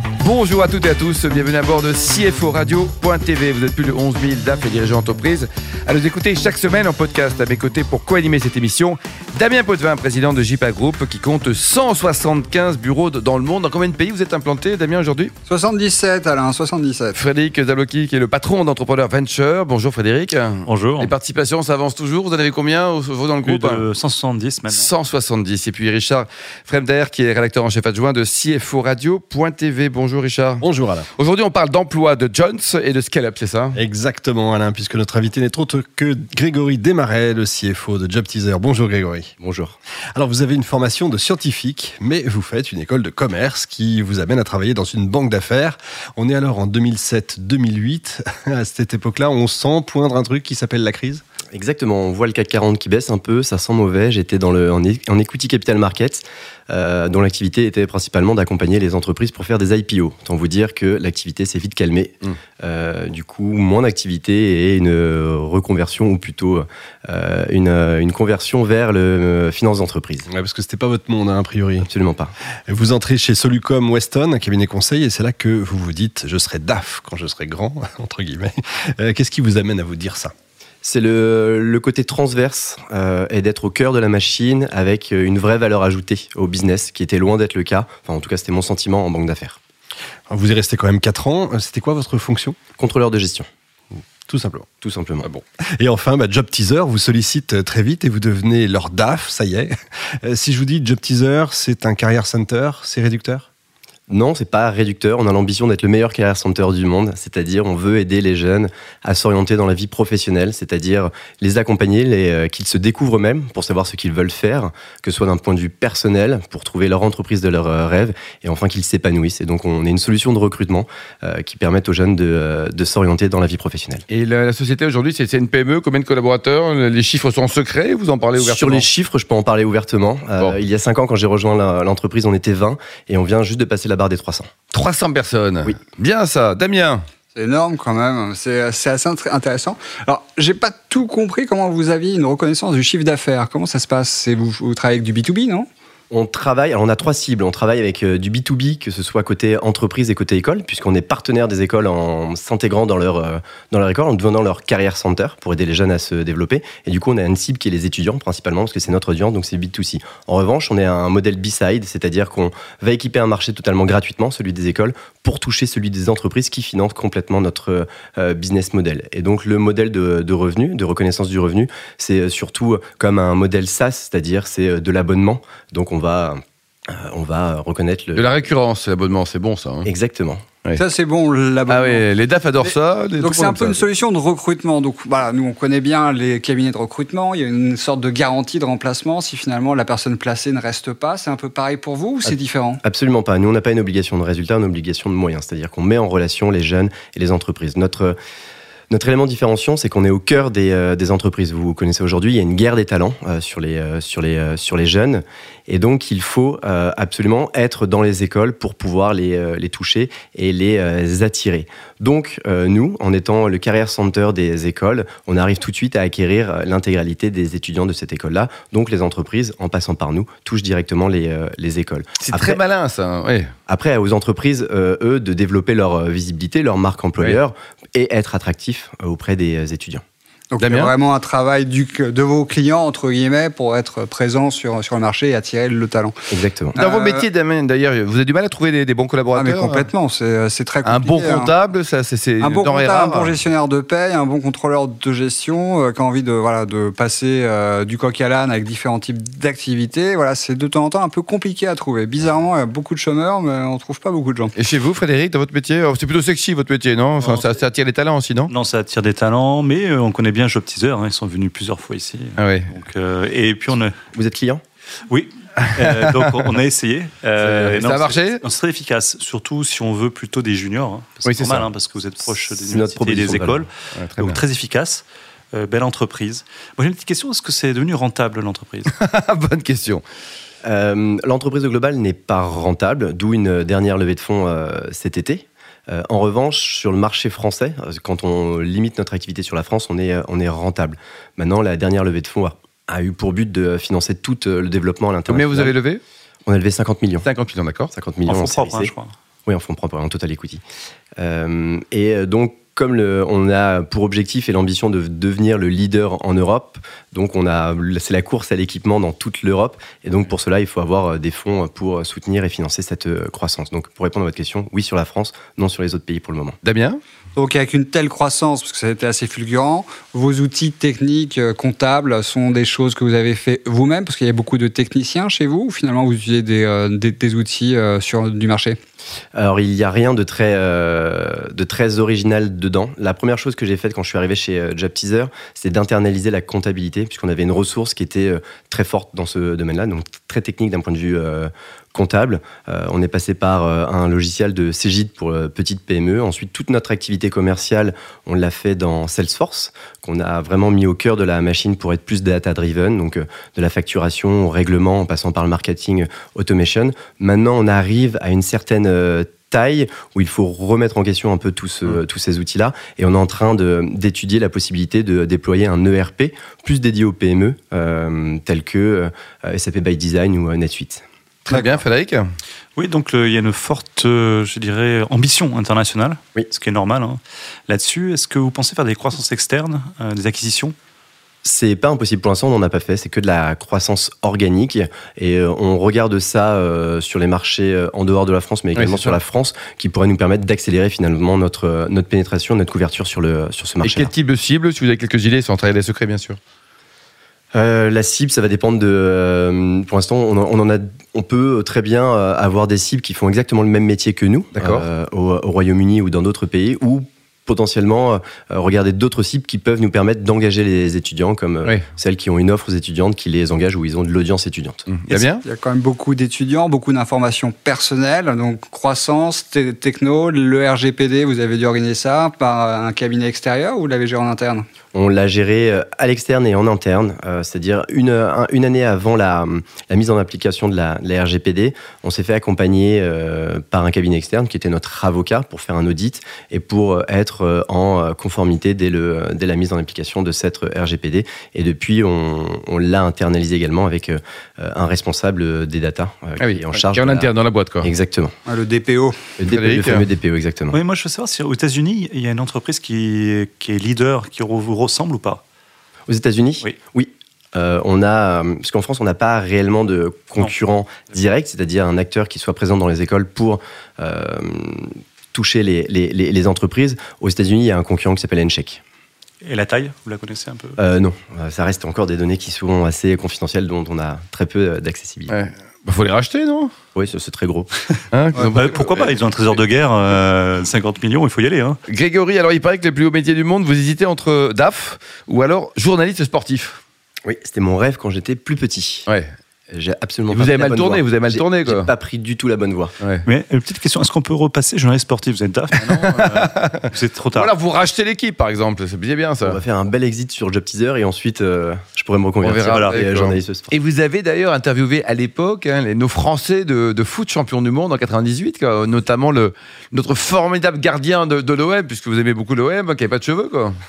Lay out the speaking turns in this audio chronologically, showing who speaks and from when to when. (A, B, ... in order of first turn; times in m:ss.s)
0:00.2-0:15.3 A
0:15.5-0:17.2 B
0:17.1-0:23.8 A
0:20.7-0:21.2 C
0:23.4-0:24.9 C
0:24.7-0:30.6 A
0:30.6-0:31.1 D
0:31.2-0:33.8 A
0:33.8-0:39.3 D
0:39.4-0:39.8 E
0:40.1-0:51.2 D
0:51.5-1:10.3 E
1:10.3-1:11.9 D
1:11.9-1:12.3 E
1:12.7-1:20.3 D
1:20.8-1:29.6 E
1:30.3-1:32.6 D
1:32.8-1:33.5 E
1:34.3-1:34.7 D
1:34.8-1:35.3 E
1:35.2-1:43.5 D
1:44.1-2:04.0 E
2:04.1-2:08.8 A
2:08.4-2:14.5 E
2:14.7-2:17.1 A
2:17.4-2:25.7 B
2:26.1-2:58.3 E
2:58.2-2:59.9 A
2:59.8-3:00.5 E
3:00.8-3:02.0 B
3:01.7-3:03.9 A
3:03.2-3:12.8 B
3:12.8-3:18.2 E
3:18.9-3:42.6 E
3:42.2-3:43.5 A
3:43.7-3:50.0 E
3:50.5-3:57.3 B
3:50.6-3:50.9 A
3:56.3-3:56.8 E
3:56.8-3:59.9 A
3:59.4-4:01.5 B
4:00.8-4:03.4 A
4:02.4-4:14.5 B
4:14.6-4:18.5 A
4:17.2-4:17.5 C
4:18.5-4:23.9 C
4:22.4-4:22.7 A
4:24.1-4:24.6 E
4:25.1-4:38.9 C
4:27.4-4:28.4 A
4:31.2-4:31.7 A
4:32.6-4:33.7 E
4:33.9-4:34.4 A
4:38.9-4:40.0 A
4:40.6-4:55.8 E
4:55.3-4:56.0 A
4:56.5-4:57.3 E
4:57.2-4:57.9 A
4:57.9-4:58.9 E
4:58.3-4:59.1 C
4:59.5-5:00.6 E
5:01.2-5:16.6 E
5:16.6-5:17.0 A
5:17.4-5:28.8 B
5:29.4-6:11.0 E
6:11.5-6:12.3 A
6:12.8-6:20.8 C
6:21.4-6:34.1 E
6:28.8-6:29.2 A
6:33.8-6:36.4 A
6:37.5-6:54.8 E
6:44.6-6:44.9 A
6:54.9-6:55.4 A
6:55.1-7:04.6 B
7:04.9-7:27.3 E
7:26.4-7:27.9 A
7:27.8-7:28.3 E
7:28.5-7:29.3 B
7:29.4-7:30.8 E
7:29.4-7:30.0 A
7:30.7-7:35.4 C
7:36.1-7:48.8 E
7:49.4-7:50.8 C
7:50.8-7:55.3 E
7:55.3-7:56.7 A
7:57.0-7:57.7 E
7:58.1-7:59.0 A
7:58.5-8:01.8 C
8:01.9-8:06.8 A
8:07.2-8:09.1 E
8:09.7-8:13.0 E
8:10.3-8:11.9 A
8:13.2-8:17.5 C
8:15.9-8:19.6 A
8:19.4-8:23.7 E
8:22.4-8:33.8 A
8:22.7-8:23.0 C